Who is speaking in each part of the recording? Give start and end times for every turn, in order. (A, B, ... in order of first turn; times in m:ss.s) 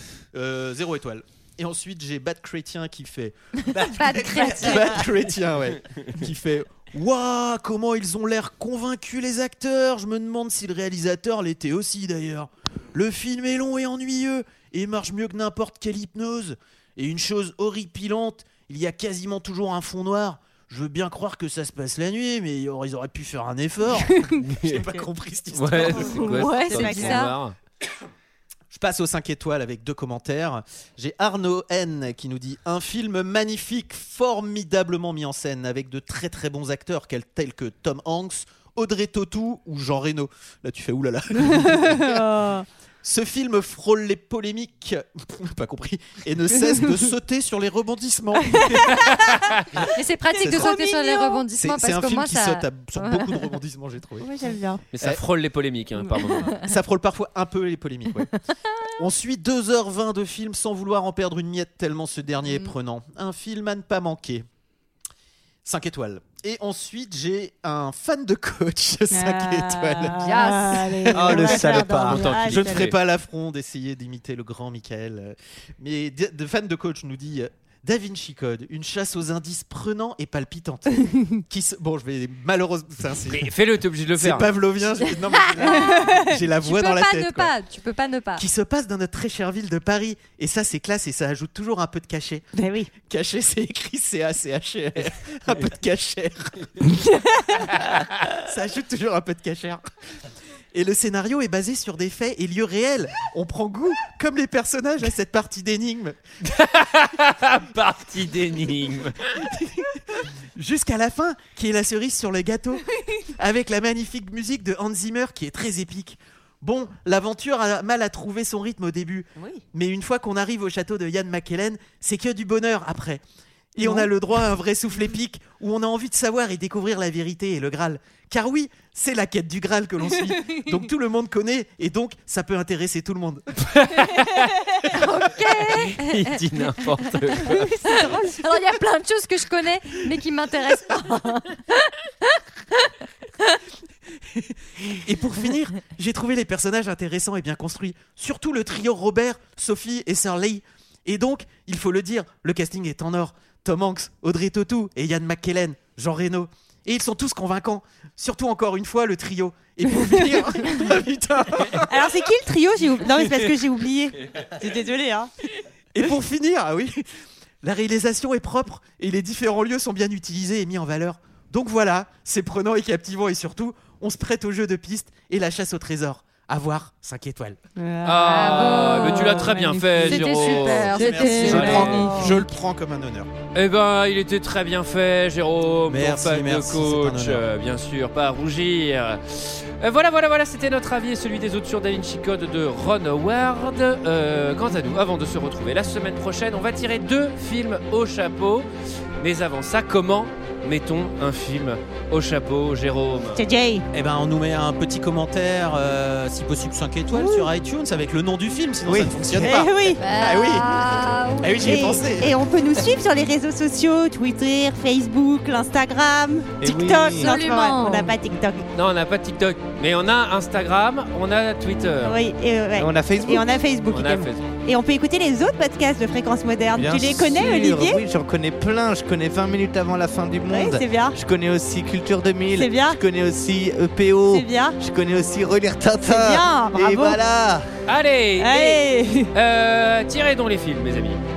0:00.3-0:26.4 A
0:03.7-0:05.0 B
0:03.8-0:04.8 C
0:24.0-0:25.1 D
0:24.4-0:24.8 E
0:25.5-0:27.6 E
0:25.7-0:27.2 D
0:26.1-0:27.3 B
0:28.7-0:42.2 A
0:41.4-0:42.6 D
0:43.0-0:49.3 A
0:48.4-0:49.1 D
0:48.8-0:49.6 E
0:49.9-0:53.6 B
0:50.3-0:51.4 D
0:50.4-0:50.8 A
0:51.5-0:54.3 A
0:54.2-0:54.8 D
0:54.9-0:56.5 E
0:56.5-0:58.3 A
0:59.0-1:04.4 A
1:05.6-1:10.2 A
1:09.1-1:12.9 D
1:10.2-1:10.9 B
1:11.1-1:12.3 C
1:11.2-1:11.5 A
1:12.0-1:12.9 E
1:12.1-1:23.5 A
1:21.1-1:21.4 D
1:23.3-1:24.5 E
1:24.2-1:27.5 A
1:25.3-1:28.4 B
1:25.6-1:26.4 D
1:28.4-1:32.4 A
1:32.5-1:32.9 D
1:33.0-1:36.7 A
1:37.1-1:37.6 D
1:37.5-1:39.8 A
1:40.7-1:46.2 A
1:46.4-1:49.5 E
1:50.6-2:03.2 A
1:59.4-1:59.6 D
2:03.8-2:13.8 A
2:03.8-2:04.1 D
2:10.3-2:10.7 D
2:13.6-2:14.6 E
2:14.9-2:16.4 B
2:15.7-2:17.7 E
2:17.3-2:21.9 B
2:17.5-2:18.7 D
2:25.0-2:42.1 A
2:39.9-2:40.8 D
2:41.9-2:45.3 D
2:45.9-2:47.0 A
2:47.6-2:57.6 A
2:57.8-3:02.5 D
2:58.0-3:02.1 E
2:58.3-2:59.5 B
3:00.0-3:02.2 B
3:00.4-3:03.3 A
3:03.5-3:18.6 E
3:05.9-3:07.4 A
3:19.2-3:23.4 E
3:23.3-3:23.8 D
3:23.9-3:32.3 A
3:27.1-3:27.5 D
3:28.8-3:29.6 C
3:29.4-3:30.0 D
3:30.0-3:32.0 B
3:31.6-3:38.6 D
3:36.6-3:37.3 C
3:37.1-3:38.1 B
3:38.7-3:42.2 E
3:42.0-3:48.0 D
3:42.8-3:43.6 C
3:43.9-3:44.4 E
3:46.7-3:57.6 C
3:50.5-3:51.2 D
3:52.5-3:53.0 D
3:54.3-3:54.8 D
3:56.0-3:57.2 D
3:57.9-4:01.2 E
3:58.4-3:59.3 D